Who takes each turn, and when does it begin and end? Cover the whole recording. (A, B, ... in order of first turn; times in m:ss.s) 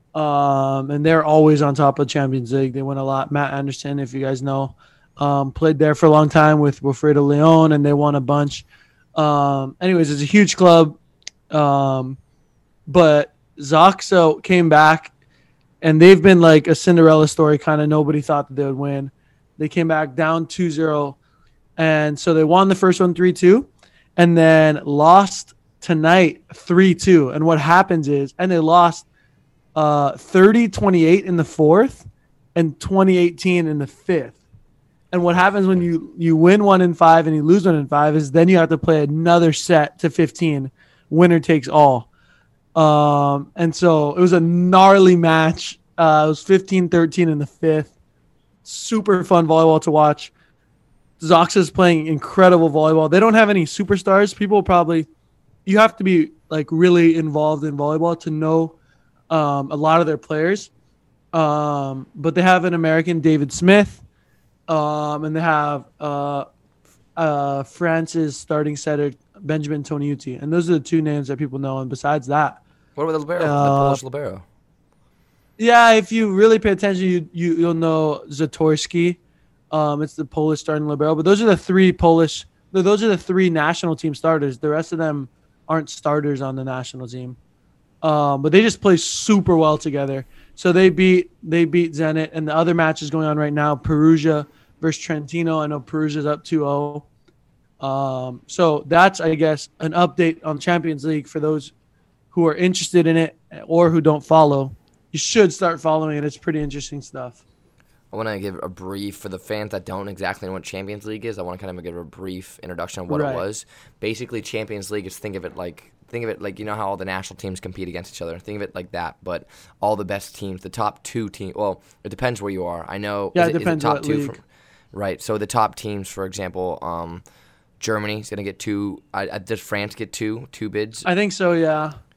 0:00.1-0:11.0 A
0:11.5-0:12.2 A
0:12.9-0:15.1 A
0:15.8-0:21.2 A
0:21.8-0:29.0 A
0:29.8-0:34.4 A
0:35.1-0:42.1 A
0:42.8-0:47.9 A
0:48.6-0:50.3 A
0:51.2-0:55.1 A
0:55.6-0:58.8 A
0:59.3-1:00.7 A
1:01.3-1:04.0 A
1:04.7-1:06.5 A
1:07.2-1:12.6 A
1:13.0-1:14.4 B
1:13.4-1:14.0 A
1:15.6-1:19.2 A
1:19.7-1:27.4 A
1:28.0-1:37.1 A
1:37.8-1:41.7 A
1:42.3-1:47.4 A
1:48.1-2:07.2 B
1:53.1-1:53.4 A
2:03.4-2:04.4 A
2:07.8-2:11.1 B
2:11.0-2:12.0 A